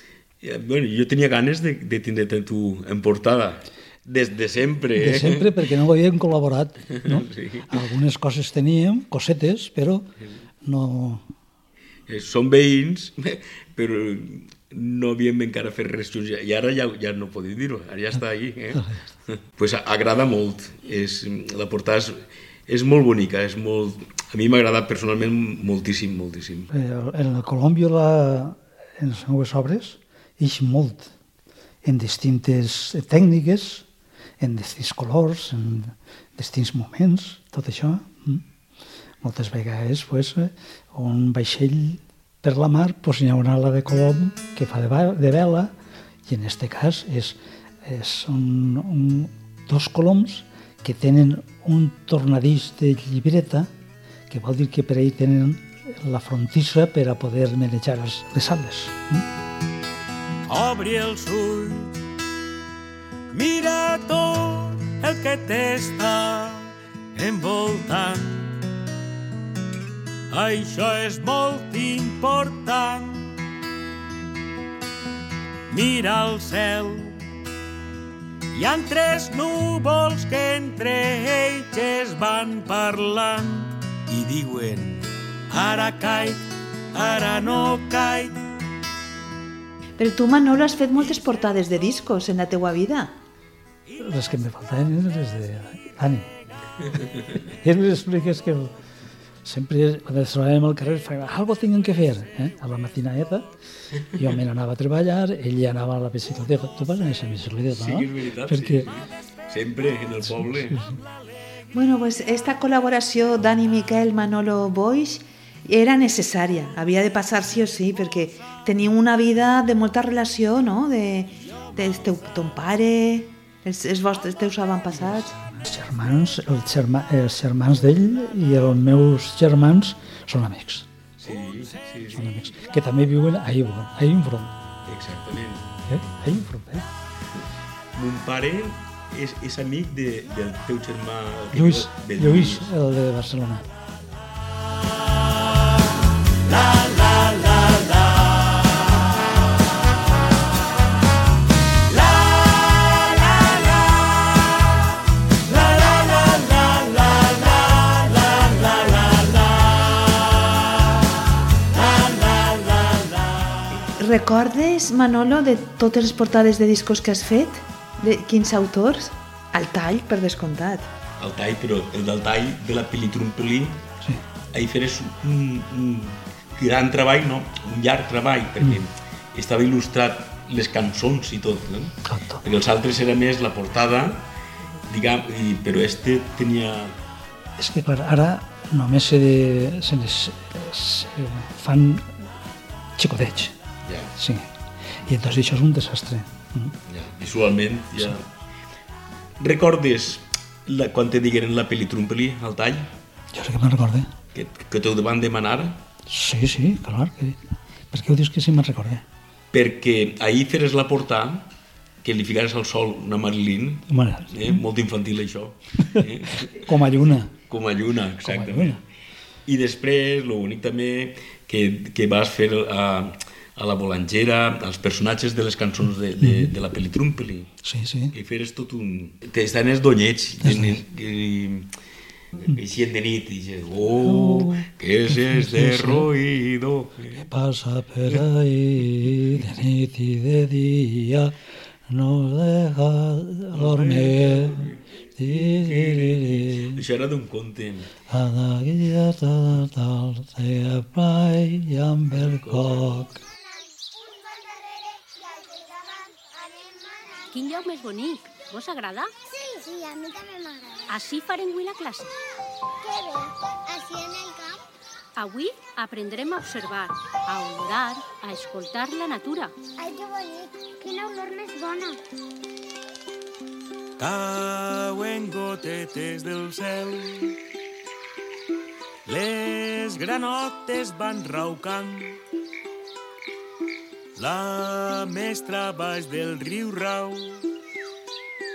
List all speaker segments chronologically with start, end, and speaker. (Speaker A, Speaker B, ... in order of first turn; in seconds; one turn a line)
Speaker A: 0.4-5.6
Speaker B: 5.0-10.1
Speaker A: 7.0-7.8
Speaker B: 10.6-11.2
Speaker A: 12.1-26.7
Speaker B: 26.7-31.1
Speaker B: 31.8-33.8
Speaker B: 34.4-38.4
Speaker B: 39.2-45.7
Speaker B: 46.3-53.7
Speaker B: 54.3-59.2
Speaker C: 60.5-62.0
Speaker C: 63.3-68.5
Speaker C: 70.3-73.2
Speaker C: 75.7-77.2
Speaker C: 78.5-83.7
Speaker A: 84.1-85.0
Speaker C: 85.5-86.4
Speaker C: 86.9-88.4
Speaker D: 90.0-93.2
Speaker B: 94.0-96.3
Speaker B: 97.5-98.7
Speaker B: 99.4-103.5
Speaker B: 104.1-108.9
Speaker A: 107.7-110.8
Speaker B: 110.3-111.0
Speaker D: 111.7-125.4
Speaker B: 125.4-130.9
Speaker A: 131.2-132.3
Speaker B: 132.1-134.5
Speaker A: 134.8-135.7
Speaker B: 135.9-136.8
Speaker A: 137.9-142.7
Speaker B: 141.5-143.7
Speaker C: 146.5-147.8
Speaker C: 152.8-153.6
Speaker C: 155.5-157.2
Speaker C: 157.9-159.2
Speaker C: 161.7-163.0
Speaker D: 163.7-170.9
Speaker A: 171.2-173.8
Speaker A: 174.5-184.2
Speaker B: 182.1-182.4
Speaker A: 184.9-186.9
Speaker B: 187.6-192.1
Speaker B: 193.0-193.5
Speaker A: 193.8-194.1
Speaker B: 194.2-194.5
Speaker B: 195.0-196.7
Speaker A: 196.9-198.2
Speaker A: 199.4-202.9
Speaker B: 203.3-204.1
Speaker A: 204.3-205.8
Speaker B: 206.1-207.4
Speaker B: 207.9-209.0
Speaker A: 209.5-211.4
Speaker A: 212.0-216.7
Speaker B: 213.9-214.6
Speaker B: 215.9-217.3
Speaker A: 217.5-218.8
Speaker B: 218.2-218.8
Speaker A: 219.4-227.5
Speaker B: 226.2-226.5
Speaker B: 227.6-228.1
Speaker A: 228.1-231.7
Speaker B: 230.4-230.8
Speaker A: 232.3-237.2
Speaker B: 234.1-236.1
Speaker B: 237.2-241.3
Speaker B: 241.9-246.8
Speaker A: 243.5-247.9
Speaker B: 248.1-253.2
Speaker A: 252.2-252.8
Speaker E: 255.4-256.3
Speaker F: 257.3-259.1
Speaker E: 259.3-260.9
Speaker F: 260.9-262.1
Speaker E: 262.8-264.6
Speaker F: 265.1-269.5
Speaker E: 269.8-272.0
Speaker C: 274.0-277.4
Speaker C: 279.1-282.2
Speaker C: 284.1-287.4